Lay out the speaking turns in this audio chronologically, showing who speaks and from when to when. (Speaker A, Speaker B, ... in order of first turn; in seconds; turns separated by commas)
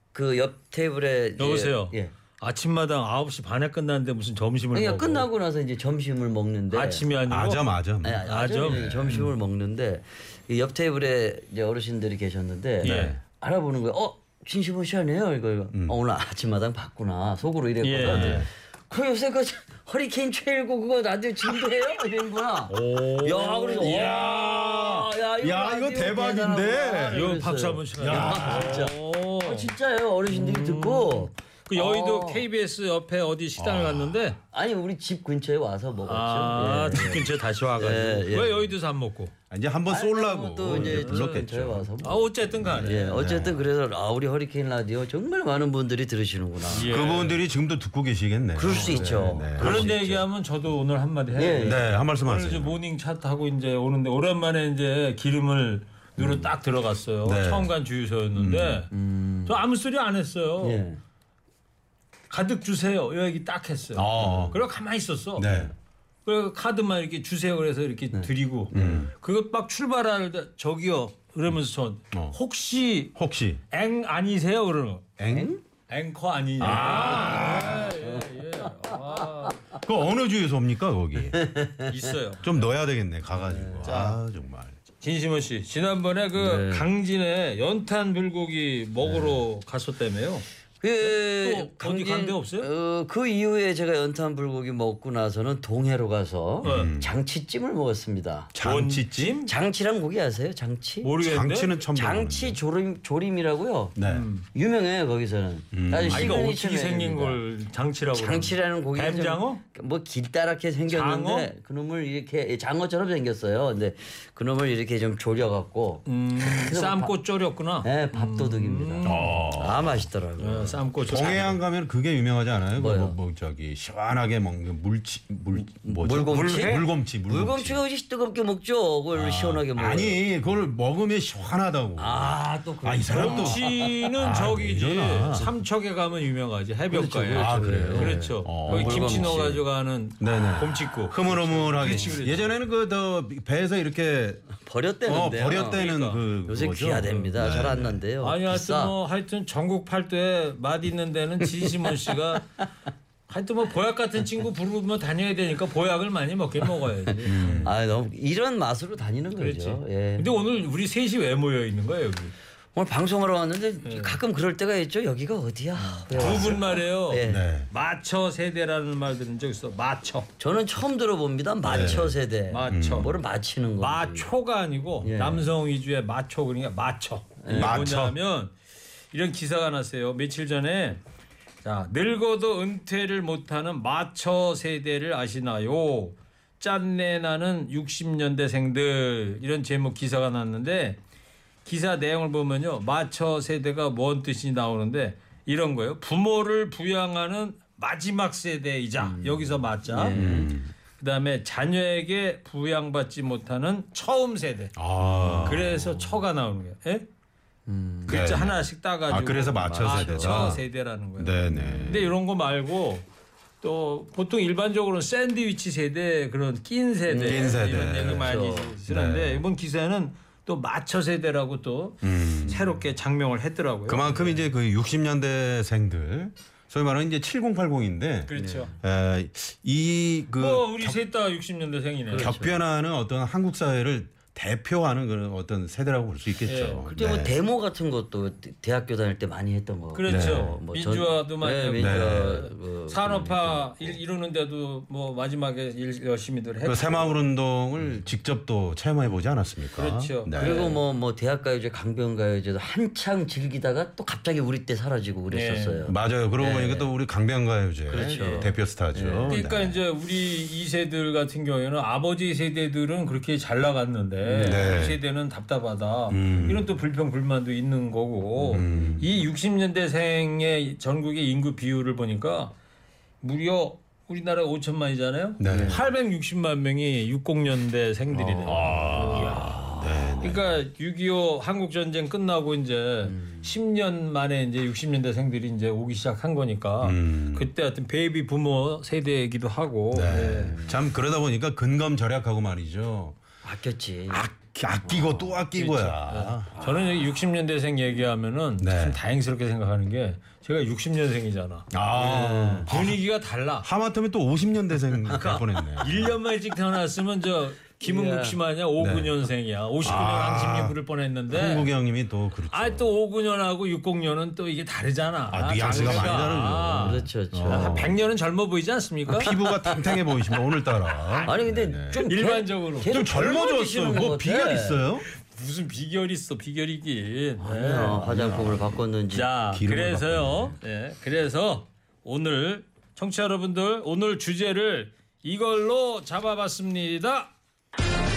Speaker A: 0.1-2.1, Speaker B: 1.4-5.3, Speaker A: 4.7-7.0, Speaker B: 6.7-7.7, Speaker C: 7.3-9.3, Speaker A: 8.0-32.5, Speaker B: 8.2-8.9, Speaker B: 12.8-13.2, Speaker C: 12.8-13.2, Speaker B: 17.8-18.5, Speaker C: 18.0-18.5, Speaker B: 22.7-24.2, Speaker C: 23.8-27.3, Speaker B: 27.1-29.7, Speaker C: 28.0-28.9, Speaker B: 30.3-34.4, Speaker C: 33.6-34.2, Speaker A: 34.5-38.7, Speaker B: 36.1-39.3, Speaker C: 39.5-41.9, Speaker A: 39.9-46.9, Speaker B: 40.7-41.4, Speaker B: 42.0-43.2, Speaker C: 42.8-43.6, Speaker B: 46.7-47.4, Speaker C: 46.8-49.9, Speaker A: 48.6-50.2, Speaker B: 48.7-58.9, Speaker A: 51.4-51.8, Speaker C: 51.6-52.8, Speaker C: 57.2-57.7, Speaker C: 58.4-58.8, Speaker A: 58.9-59.6, Speaker B: 59.5-60.9, Speaker A: 60.6-61.0, Speaker B: 62.3-65.5, Speaker C: 64.0-64.6, Speaker C: 65.4-65.7, Speaker B: 66.3-73.1, Speaker C: 68.7-69.1, Speaker C: 73.2-73.6, Speaker B: 73.7-75.1, Speaker C: 75.2-75.5, Speaker A: 75.3-75.6, Speaker B: 75.9-79.6, Speaker C: 76.6-77.8, Speaker A: 76.7-78.8, Speaker C: 79.8-81.5, Speaker A: 81.3-81.9, Speaker B: 81.9-82.5, Speaker C: 82.4-84.8, Speaker A: 83.4-84.1, Speaker B: 83.8-84.2, Speaker B: 85.0-90.5, Speaker A: 86.4-86.9, Speaker A: 89.0-89.4, Speaker A: 90.8-98.5, Speaker B: 91.0-92.7, Speaker B: 96.6-96.9, Speaker C: 96.6-97.1, Speaker C: 98.5-99.4, Speaker B: 98.6-99.5, Speaker A: 99.5-101.1, Speaker B: 101.0-101.7, Speaker C: 101.2-102.6, Speaker A: 101.9-104.0, Speaker C: 104.0-104.3, Speaker B: 104.1-104.5, Speaker A: 104.5-107.4, Speaker C: 105.7-106.4, Speaker B: 106.1-109.6, Speaker A: 108.1-117.2, Speaker B: 110.9-111.5, Speaker B: 116.1-119.4, Speaker A: 117.8-120.8, Speaker C: 119.0-120.1, Speaker B: 120.4-121.6, Speaker C: 121.0-127.8, Speaker A: 122.8-123.2, Speaker A: 125.7-130.2, Speaker B: 126.3-126.8, Speaker C: 129.1-133.7, Speaker A: 132.0-134.0, Speaker B: 133.1-142.5, Speaker C: 134.2-135.5, Speaker A: 136.9-139.6, Speaker C: 137.3-139.4, Speaker C: 140.2-144.4, Speaker A: 141.8-142.2, Speaker A: 144.6-145.8, Speaker C: 145.1-148.0, Speaker B: 145.5-146.2, Speaker A: 146.5-148.9, Speaker B: 148.2-152.5, Speaker B: 153.3-157.7, Speaker C: 157.3-157.7, Speaker A: 157.6-160.3, Speaker B: 159.4-162.3, Speaker A: 162.8-167.4, Speaker B: 163.8-164.2, Speaker B: 165.8-170.3, Speaker C: 166.2-166.6, Speaker C: 167.3-167.7, Speaker A: 170.4-174.3, Speaker C: 171.6-172.1, Speaker B: 172.5-173.1, Speaker C: 172.7-173.1, Speaker B: 173.8-178.5, Speaker A: 175.0-175.5, Speaker A: 177.4-177.9, Speaker C: 177.5-178.2, Speaker B: 179.1-181.0, Speaker B: 181.6-191.0, Speaker B: 191.7-204.8, Speaker A: 199.0-200.6, Speaker C: 200.1-200.7, Speaker C: 204.8-205.9, Speaker A: 205.1-205.7, Speaker B: 205.4-207.1, Speaker A: 207.7-208.2, Speaker B: 208.1-213.1, Speaker C: 208.1-210.6, Speaker A: 209.6-210.6, Speaker C: 211.2-212.1, Speaker A: 211.5-211.9, Speaker B: 213.6-224.5, Speaker A: 217.1-218.8, Speaker C: 217.3-218.3, Speaker C: 218.9-219.4, Speaker C: 222.0-222.6, Speaker C: 223.9-231.0, Speaker B: 228.3-228.7, Speaker A: 228.3-228.7, Speaker B: 230.4-232.3, Speaker A: 232.1-232.6, Speaker C: 232.2-237.3, Speaker B: 236.5-236.8, Speaker A: 236.9-244.0, Speaker B: 239.9-247.2, Speaker C: 240.1-240.5, Speaker C: 241.8-242.3, Speaker C: 246.7-250.7, Speaker B: 249.8-250.8, Speaker A: 250.3-256.9, Speaker B: 255.3-255.9, Speaker C: 255.9-259.8, Speaker A: 257.9-259.4, Speaker B: 258.1-258.5, Speaker B: 259.3-272.5, Speaker A: 264.3-264.7, Speaker C: 264.4-265.0, Speaker C: 266.1-266.7, Speaker A: 268.4-268.9, Speaker C: 268.5-269.1, Speaker B: 273.2-279.6, Speaker C: 275.4-275.8, Speaker A: 275.4-275.8, Speaker A: 278.1-279.9, Speaker C: 278.5-280.6, Speaker B: 280.2-290.6, Speaker A: 283.1-283.5, Speaker C: 286.8-287.5, Speaker C: 289.9-293.2, Speaker A: 290.2-290.8, Speaker A: 293.4-294.2, Speaker C: 294.1-296.7, Speaker A: 294.9-295.3, Speaker B: 295.5-301.7, Speaker C: 298.6-299.0, Speaker C: 301.7-302.9, Speaker A: 301.9-302.7, Speaker B: 302.7-303.7, Speaker C: 303.6-306.1, Speaker B: 305.1-311.7, Speaker A: 307.8-308.4, Speaker C: 308.8-309.1, Speaker C: 309.8-310.8, Speaker C: 311.3-312.9, Speaker B: 312.5-319.3, Speaker C: 315.3-318.0, Speaker A: 315.7-316.3, Speaker A: 316.8-317.8, Speaker C: 319.1-322.0, Speaker B: 321.0-321.4, Speaker A: 321.3-324.9, Speaker B: 321.9-323.4, Speaker C: 322.9-325.1, Speaker B: 325.2-328.4, Speaker A: 327.4-329.3, Speaker C: 328.2-328.5, Speaker B: 329.1-337.3, Speaker C: 329.5-330.6